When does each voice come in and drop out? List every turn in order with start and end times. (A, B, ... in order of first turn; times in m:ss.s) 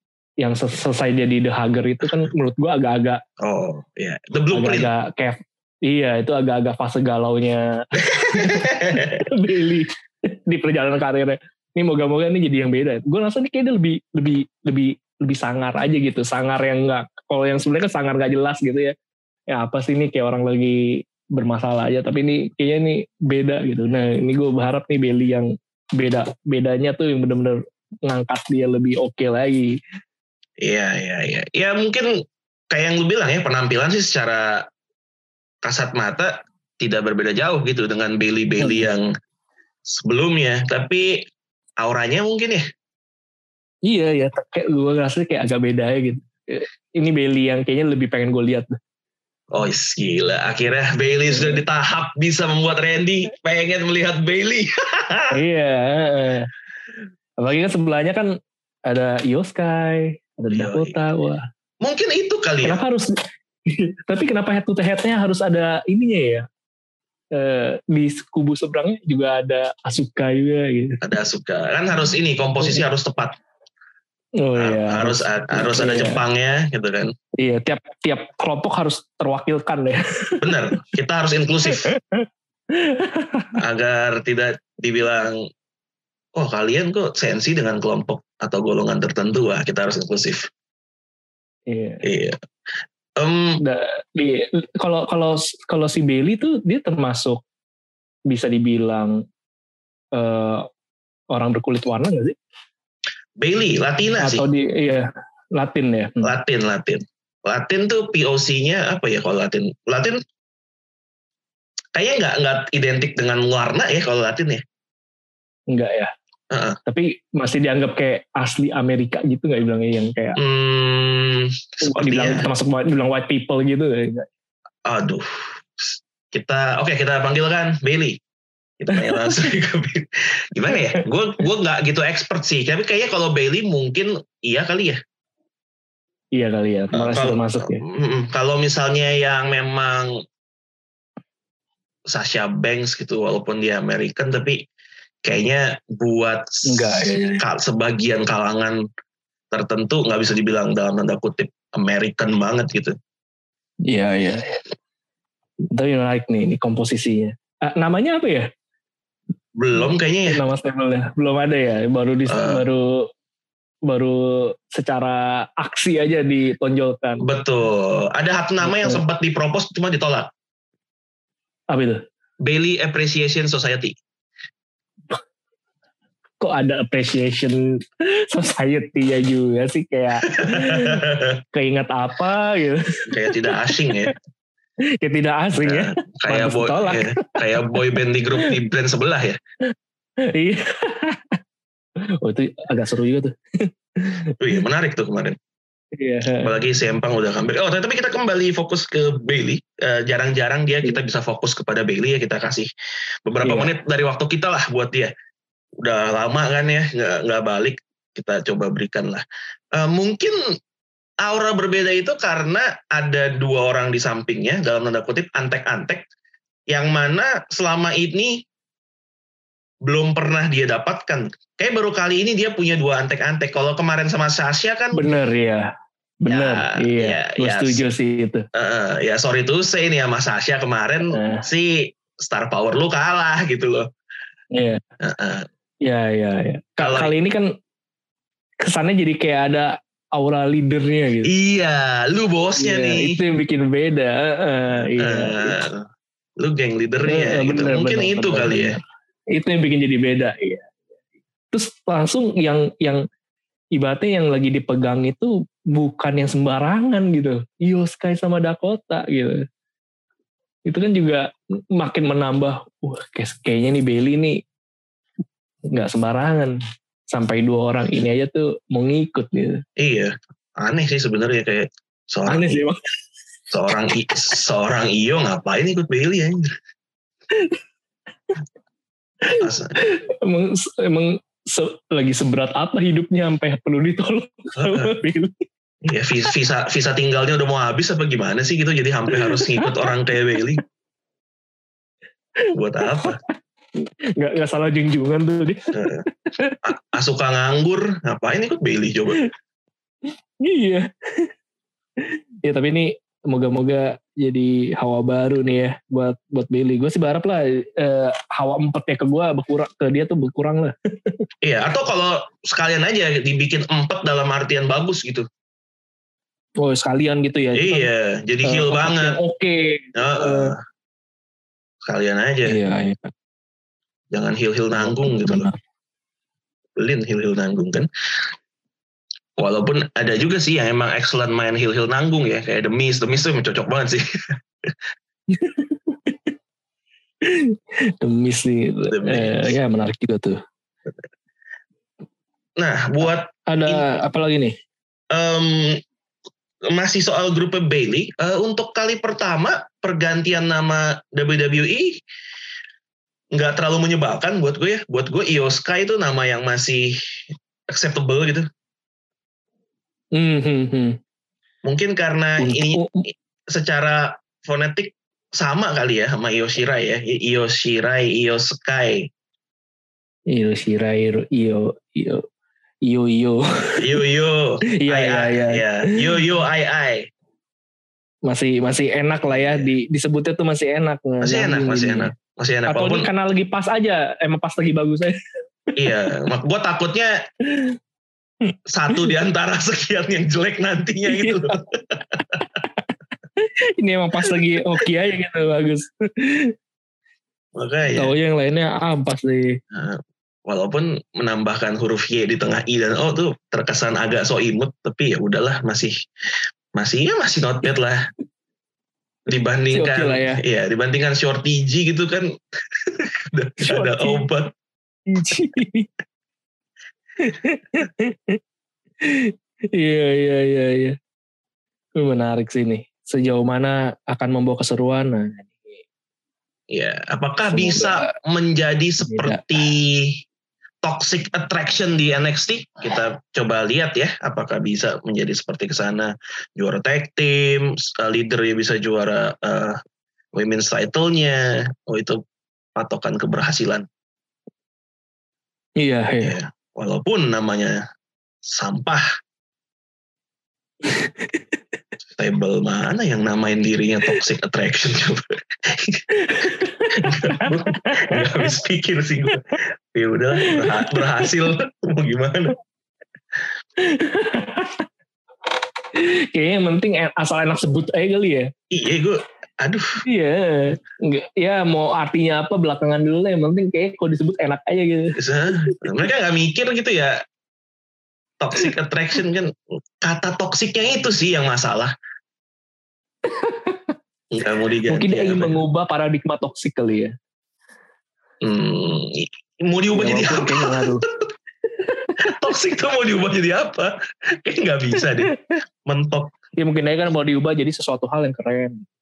0:00.4-0:03.2 A
0:02.0-0:02.3 B
0:03.4-0:04.9 B
0:04.5-0:18.9 A
0:08.1-0:09.2 B
0:19.5-0:29.8 A
0:30.6-0:32.1 B
0:32.7-0:34.7 B
0:35.6-0:39.1 B
0:38.6-0:38.9 A
0:39.9-0:41.2 B
0:41.8-0:42.6 B
0:43.9-0:48.8 A
0:49.5-0:55.4 B
0:51.3-0:51.6 A
0:55.3-0:56.5 A
0:57.4-0:58.3 A
0:58.9-1:01.4 A
1:00.5-1:01.0 B
1:01.8-1:02.8 B
1:02.6-1:03.1 A
1:03.7-1:06.5 A
1:07.4-1:11.0 A
1:11.0-1:13.4 B
1:14.4-1:16.2 A
1:14.6-1:17.1 B
1:17.4-1:20.6 A
1:20.4-1:21.9 B
1:21.7-1:23.6 A
1:23.6-1:25.5 B
1:26.4-1:30.5 B
1:31.7-1:32.0 A
1:32.0-1:32.4 B
1:33.2-1:33.6 B
1:33.6-1:37.4 A
1:38.3-1:39.2 A
1:40.2-1:40.7 A
1:41.3-1:42.4 A
1:43.4-1:44.4 B
1:44.2-1:46.3 A
1:46.2-1:50.2 B
1:52.0-1:54.6 B
1:55.7-1:56.1 A
1:56.5-1:56.8 B
1:56.9-2:00.4 A
2:00.4-2:02.5 B
2:01.8-2:04.3 A
2:04.9-2:08.2 B
2:08.8-2:15.0 B
2:08.9-2:09.5 A
2:10.7-2:11.0 A
2:16.4-2:17.8 A
2:16.9-2:20.2 B
2:22.1-2:24.6 B
2:25.2-2:28.8 B
2:26.7-2:27.4 A
2:29.5-2:33.0 B
2:33.9-2:34.6 A
2:35.7-2:38.5 A
2:39.6-2:40.4 B
2:40.3-2:43.1 A
2:42.3-2:42.6 B
2:43.9-2:47.2 A
2:47.2-2:50.3 B
2:48.6-2:49.0 A
2:51.7-2:52.0 A
2:52.4-2:54.0 B
2:56.4-3:04.1 A
3:00.3-3:01.4 B
3:03.1-3:04.1 B
3:05.0-3:07.8 A
3:05.6-3:09.4 B
3:09.7-3:11.4 A
3:12.2-3:14.3 A
3:14.4-3:15.4 B
3:16.0-3:16.6 A
3:16.4-3:22.7 B
3:23.3-3:25.1 B
3:23.4-3:23.7 A
3:25.8-3:30.4 B
3:31.2-3:36.0 B
3:36.7-3:38.4 B
3:39.8-3:45.1 B
3:44.9-3:45.7 A
3:46.2-3:48.4 A
3:46.3-3:47.8 B
3:48.6-3:53.9 B
3:51.1-3:51.4 A
3:54.5-3:54.8 A
3:55.0-3:55.5 B
3:55.8-3:57.5 A
3:56.8-3:57.1 B
3:58.6-4:01.3 A
4:01.3-4:03.2 B
4:02.6-4:05.6 A
4:04.7-4:05.9 B
4:06.4-4:08.8 B
4:07.0-4:08.8 A
4:09.3-4:10.7 A
4:11.5-4:13.0 A
4:13.8-4:19.4 A
4:20.7-4:24.4 A
4:25.7-4:26.6 A
4:27.1-4:29.6 A
4:29.8-4:32.6 B
4:32.3-4:32.8 A
4:33.5-4:36.5 B
4:39.3-4:45.4 A
4:39.4-4:39.8 B
4:44.6-4:44.9 B
4:45.8-4:50.6 B
4:49.1-4:49.9 A
4:52.5-4:53.2 A
4:52.6-4:53.2 B
4:53.8-4:56.6 A
4:55.7-4:56.0 B
4:56.6-4:59.2 B
5:00.4-5:01.3 A
5:02.0-5:11.2 A
5:11.4-5:15.3 B
5:16.6-5:17.9 A
5:17.6-5:19.2 B
5:18.4-5:20.6 A
5:20.0-5:20.6 B
5:21.8-5:22.6 B
5:22.5-5:23.1 A
5:24.1-5:25.5 B
5:24.8-5:25.6 A
5:26.8-5:27.9 B
5:29.4-5:34.8 B
5:35.3-5:36.3 A
5:37.2-5:40.4 A
5:38.9-5:39.6 B
5:42.6-5:43.8 B
5:43.5-5:44.6 A
5:45.1-5:45.8 B
5:46.7-5:52.0 B
5:53.3-5:57.0 B
5:57.7-5:58.5 B
6:00.2-6:01.0 A
6:01.6-6:09.1 B
6:02.4-6:02.9 A
6:10.3-6:12.2 A
6:12.9-6:14.0 A
6:13.8-6:17.1 B
6:14.8-6:15.6 A
6:18.3-6:22.1 A
6:19.3-6:19.7 B
6:21.2-6:23.1 B
6:22.7-6:25.2 A
6:25.8-6:27.2 B
6:27.5-6:27.8 A
6:28.5-6:29.1 A
6:28.7-6:32.4 B
6:31.1-6:31.6 A
6:33.4-6:36.5 A
6:34.2-6:34.9 B
6:37.6-6:38.1 B
6:37.9-6:39.6 A
6:39.7-6:46.0 B
6:46.8-6:48.0 B
6:49.3-6:54.5 B
6:49.7-6:50.4 A
6:53.6-6:54.2 A
6:55.1-6:55.9 A
6:57.2-6:58.4 A
6:59.0-7:01.0 A
7:02.0-7:05.8 A
7:06.7-7:10.2 B
7:07.5-7:08.1 A
7:09.0-7:09.4 A
7:10.8-7:19.8 B
7:20.4-7:22.2 B
7:22.8-7:23.9 B
7:25.8-7:26.4 A
7:26.2-7:27.8 B
7:28.4-7:29.0 B
7:30.8-7:31.4 A
7:32.2-7:36.0 B
7:36.1-7:38.5 A
7:37.0-7:42.5 B
7:40.4-7:41.3 A
7:43.8-7:44.8 A
7:46.0-7:48.5 A
7:48.7-7:49.9 B
7:50.1-7:56.0 A
7:55.2-7:57.2 B
7:58.4-8:01.9 B
8:03.3-8:03.9 A
8:04.3-8:05.6 B
8:04.9-8:07.1 A
8:08.4-8:11.2 B
8:09.9-8:11.0 A
8:11.8-8:12.2 A
8:12.2-8:15.3 B
8:15.8-8:16.3 B
8:16.6-8:18.8 A